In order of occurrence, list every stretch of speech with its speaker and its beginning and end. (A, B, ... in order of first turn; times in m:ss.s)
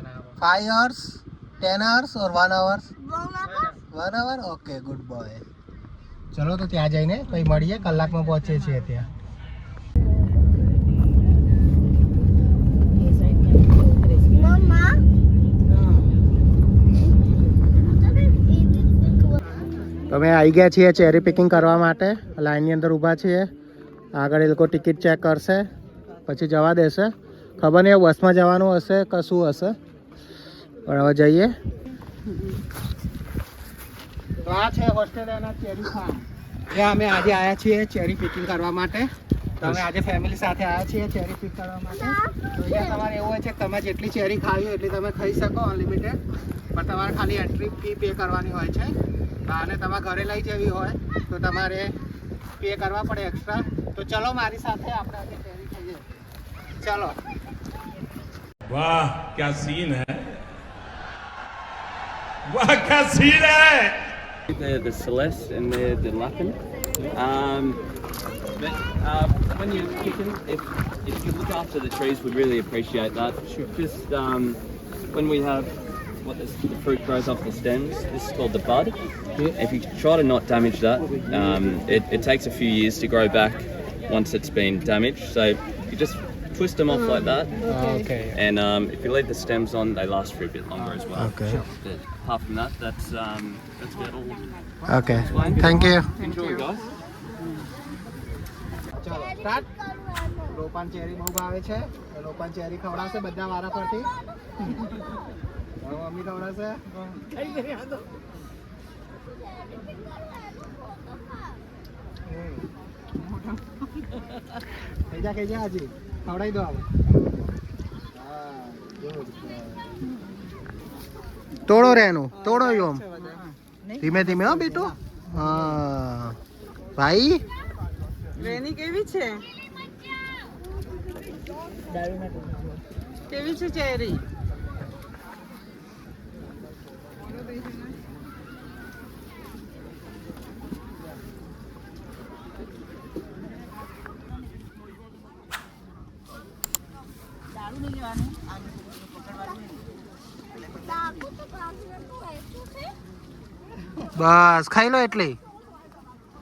0:00.4-0:02.9 A
0:03.0-0:03.8 B
0:03.8-0:05.4 A
0:06.3-0:09.1 A
0:14.3-0:15.1 B
0:17.8-0:19.6 B
0:20.1-0:23.5 A
0:24.2-0:25.7 A
0:26.3-0:29.8 A
0:30.9-0:31.5 A
0:34.4-0:39.1 A
0:39.6-0:46.2 A
0:41.9-0:43.0 B
0:46.7-0:48.9 A
0:49.5-0:51.9 A
0:52.6-0:56.0 A
0:56.8-0:57.2 A
0:58.7-1:00.3 C
1:02.5-1:04.0 C
1:04.5-1:06.6 D
1:07.1-1:07.8 D
1:08.6-1:14.6 D
1:15.1-1:27.8 D
1:28.3-1:34.5 D
1:31.2-1:31.6 A
1:34.9-1:36.1 A
1:35.1-1:36.9 D
1:39.0-1:39.7 A
1:39.1-1:40.5 B
1:40.5-1:44.1 A
1:44.3-1:45.1 B
1:45.8-1:46.8 A
1:49.4-1:51.6 B
1:55.0-1:56.9 A
1:58.9-1:59.6 A
2:01.7-2:03.1 A
2:04.0-2:06.4 A
2:07.0-2:07.4 A
2:08.4-2:09.4 E
2:13.3-2:14.2 E
2:30.6-2:33.0 B
2:34.1-2:35.4 A